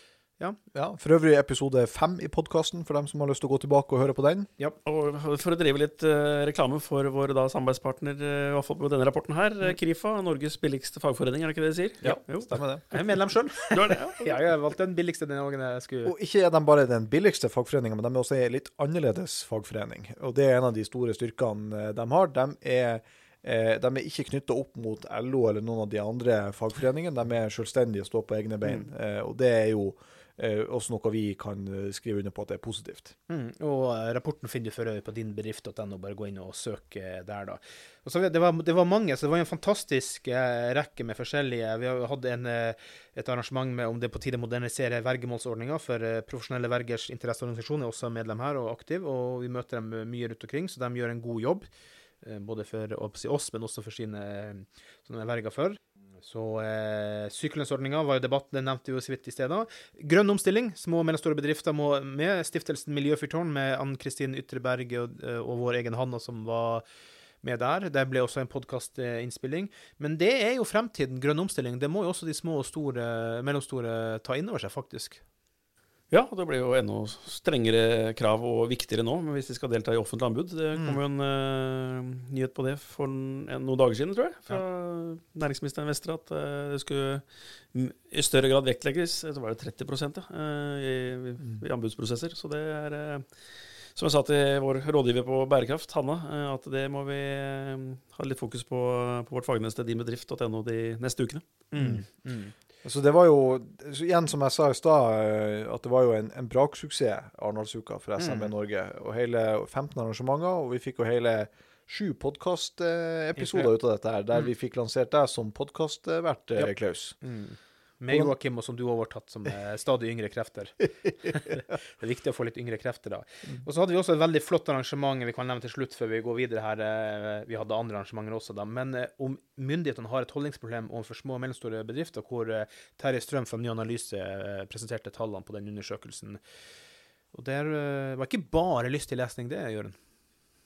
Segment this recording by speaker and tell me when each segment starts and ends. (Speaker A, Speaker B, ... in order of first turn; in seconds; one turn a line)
Speaker A: 0.7-4.5
Speaker B: 4.8-12.9
Speaker A: 12.0-12.8
Speaker C: 12.9-16.1
Speaker B: 13.7-14.4
Speaker A: 16.0-33.1
Speaker C: 33.3-51.7
Speaker C: 52.2-66.8
Speaker C: 67.4-75.2
Speaker B: 76.1-93.2
Speaker B: 93.9-101.6
Speaker C: 101.7-102.5
Speaker A: 102.8-117.2
Speaker C: 108.2-108.5
Speaker C: 113.4-113.7
Speaker C: 117.2-136.4
Speaker C: 137.3-139.9